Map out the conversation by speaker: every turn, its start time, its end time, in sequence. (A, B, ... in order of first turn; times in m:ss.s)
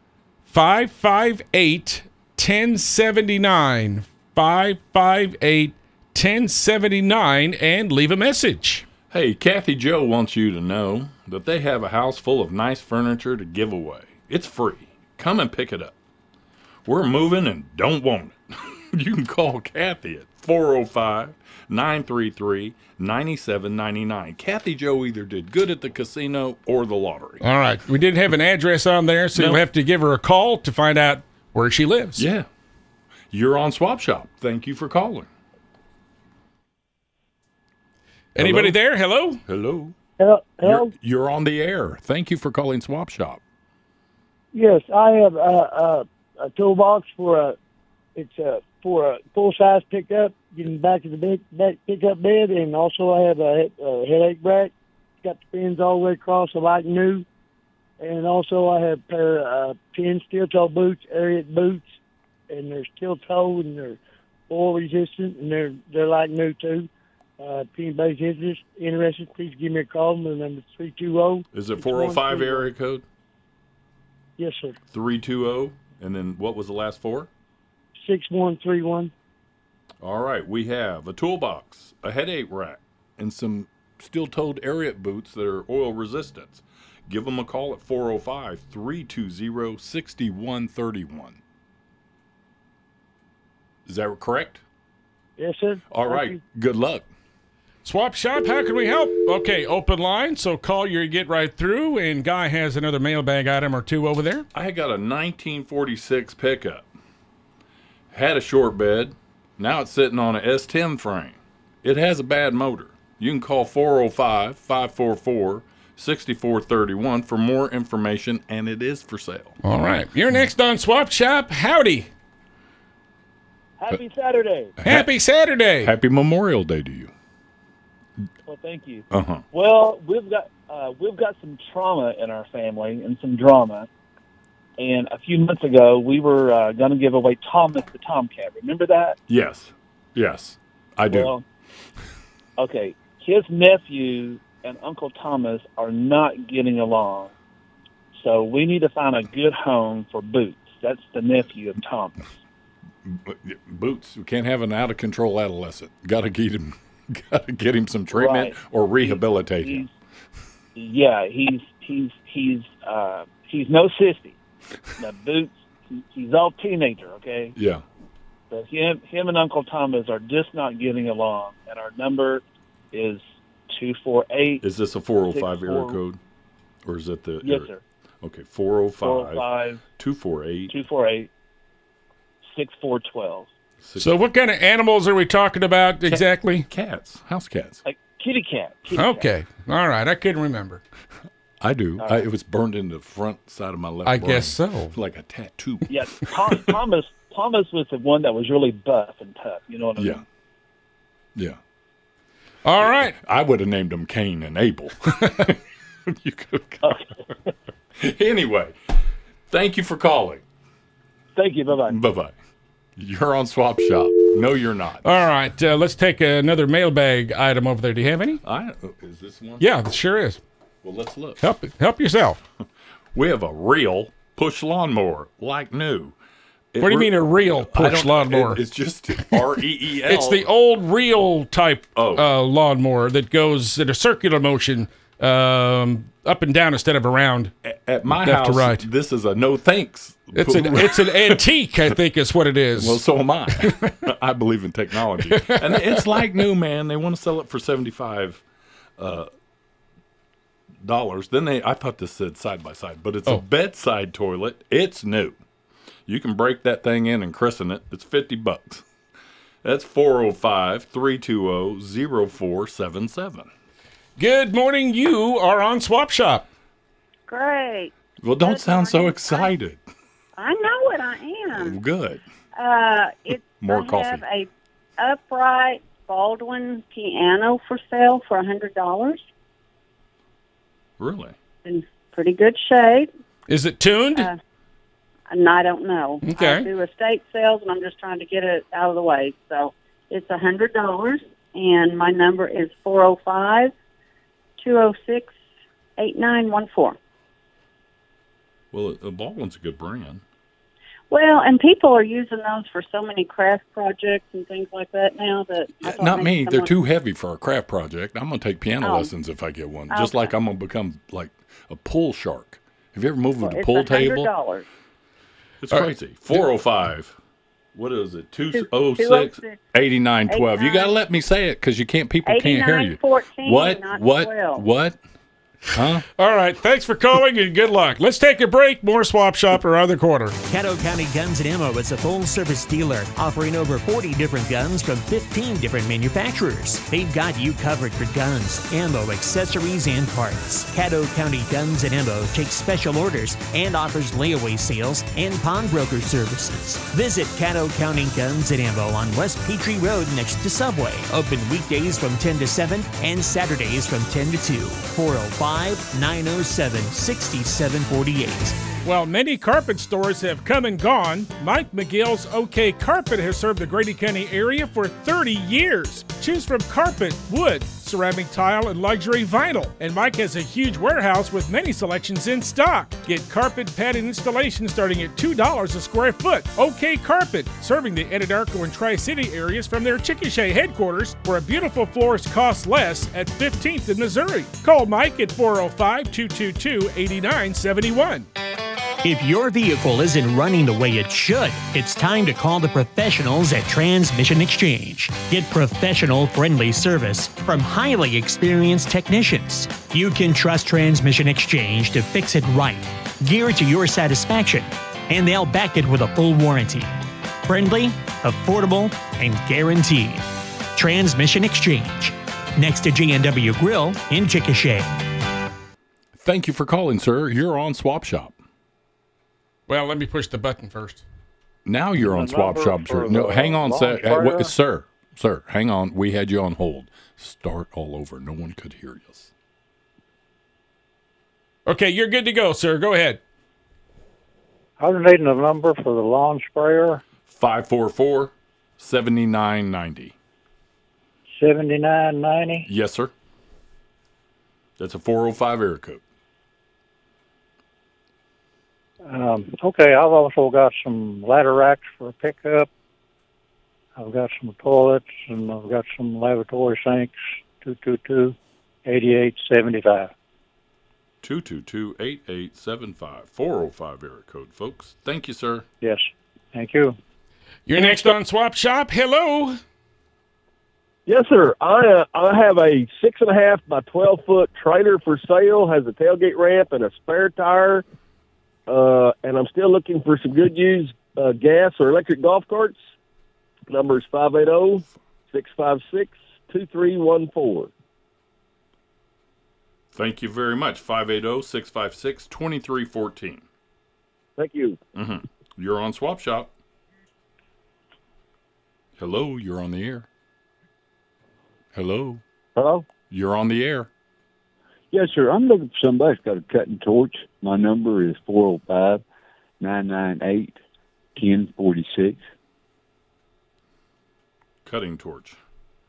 0:00.5-0:08.9 A
0:09.1-0:15.9 B
0:16.8-0:27.4 B
0:27.4-0:32.2 A
0:29.4-0:29.6 B
0:32.2-0:32.5 B
0:33.3-0:35.3 B
0:38.4-0:39.4 A
0:38.4-0:38.8 B
0:39.5-0:39.9 B
0:40.2-0:40.9 C
0:40.6-0:43.4 B
0:44.5-0:47.6 C
0:48.2-0:54.7 C
0:55.2-0:57.2 C
0:58.0-1:01.9 C
1:02.5-1:12.7 C
1:11.5-1:13.0 B
1:14.4-1:14.8 C
1:14.9-1:17.3 B
1:18.0-1:19.1 C
1:20.0-1:31.4 B
1:33.9-1:34.6 B
1:35.4-1:36.4 C
1:35.9-1:37.1 B
1:37.8-1:44.5 A
1:44.5-1:46.9 B
1:48.1-1:59.6 B
1:59.6-2:02.1 A
2:03.8-2:04.8 D
2:04.8-2:05.1 B
2:04.8-2:05.9 A
2:05.8-2:07.1 B
2:08.5-2:13.9 D
2:09.1-2:09.4 B
2:14.8-2:19.2 D
2:19.3-2:21.3 B
2:21.1-2:21.4 D
2:22.6-2:27.3 D
2:28.1-2:32.2 D
2:33.1-2:39.9 B
2:38.1-2:39.9 D
2:40.8-2:44.4 D
2:45.0-2:47.5 D
2:47.6-2:47.8 B
2:48.5-2:54.6 D
2:54.6-2:56.2 B
2:55.3-2:56.0 D
2:56.8-2:57.7 B
2:57.4-2:57.8 D
2:58.2-3:00.7 B
2:59.0-2:59.8 D
3:00.7-3:01.3 D
3:02.5-3:03.5 D
3:03.8-3:04.2 B
3:04.0-3:06.7 A
3:06.0-3:07.8 B
3:07.8-3:09.3 D
3:08.9-3:10.8 A
3:11.6-3:16.6 B
3:12.0-3:12.2 D
3:14.1-3:15.0 A
3:15.9-3:20.2 D
3:20.0-3:20.2 B
3:22.6-3:23.2 A
3:22.8-3:27.0 B
3:28.0-3:28.8 B
3:29.5-3:30.4 B
3:31.4-3:32.0 D
3:31.8-3:32.3 B
3:33.0-3:35.0 B
3:35.0-3:38.4 A
3:38.4-3:39.6 B
3:39.6-3:40.4 A
3:40.8-3:41.4 B
3:41.4-3:42.4 A
3:43.2-3:46.2 B
3:46.7-3:50.5 B
3:46.8-3:48.6 A
3:50.1-3:57.5 A
3:52.0-3:52.3 B
3:57.6-4:01.4 B
3:58.2-3:58.8 A
4:00.4-4:03.0 A
4:02.8-4:08.4 B
4:03.6-4:03.9 A
4:05.3-4:06.2 A
4:09.0-4:09.3 B
4:10.8-4:15.4 B
4:16.1-4:18.8 B
4:19.6-4:23.5 B
4:24.2-4:26.5 A
4:27.3-4:29.5 E
4:28.2-4:29.8 B
4:30.4-4:31.8 E
4:31.5-4:32.2 B
4:32.6-4:34.5 E
4:33.6-4:34.2 B
4:35.0-4:39.2 E
4:41.0-4:41.4 B
4:41.6-4:43.1 E
4:43.5-4:44.3 A
4:45.3-4:53.7 E
4:46.2-4:46.7 A
4:54.6-4:55.3 E
4:56.0-4:57.0 E
4:58.7-5:00.2 B
5:01.1-5:06.7 E
5:05.8-5:14.3 B
5:08.8-5:09.1 E
5:09.9-5:10.3 E
5:13.4-5:14.7 E
5:15.6-5:17.2 B
5:15.7-5:16.4 A
5:17.8-5:25.0 B
5:18.5-5:19.6 E
5:20.3-5:20.9 E
5:22.2-5:24.7 E
5:25.7-5:26.1 B
5:26.2-5:30.4 A
5:30.5-5:58.6 F
5:58.8-6:28.3 A
6:29.0-6:54.9 F
6:56.2-6:58.4 B
6:59.7-7:01.0 A
7:01.6-7:09.3 B
7:02.0-7:04.5 G
7:11.6-7:13.2 A
7:14.8-7:17.0 G
7:17.3-7:20.1 B
7:21.4-7:22.7 G
7:22.7-7:23.1 B
7:24.8-7:26.0 B
7:29.0-7:32.7 G
7:34.0-7:40.1 G
7:41.2-7:45.6 B
7:45.8-7:47.0 G
7:47.7-7:49.6 A
7:47.8-7:48.1 G
7:51.1-7:57.8 H
7:58.7-8:02.8 H
8:03.7-8:07.7 H
8:09.9-8:13.4 B
8:14.4-8:14.8 H
8:15.0-8:16.5 B
8:19.0-8:20.1 B
8:21.7-8:22.2 B
8:23.1-8:23.9 B
8:24.9-8:29.0 I
8:29.6-8:30.6 I
8:31.2-8:32.2 I
8:34.6-8:35.4 B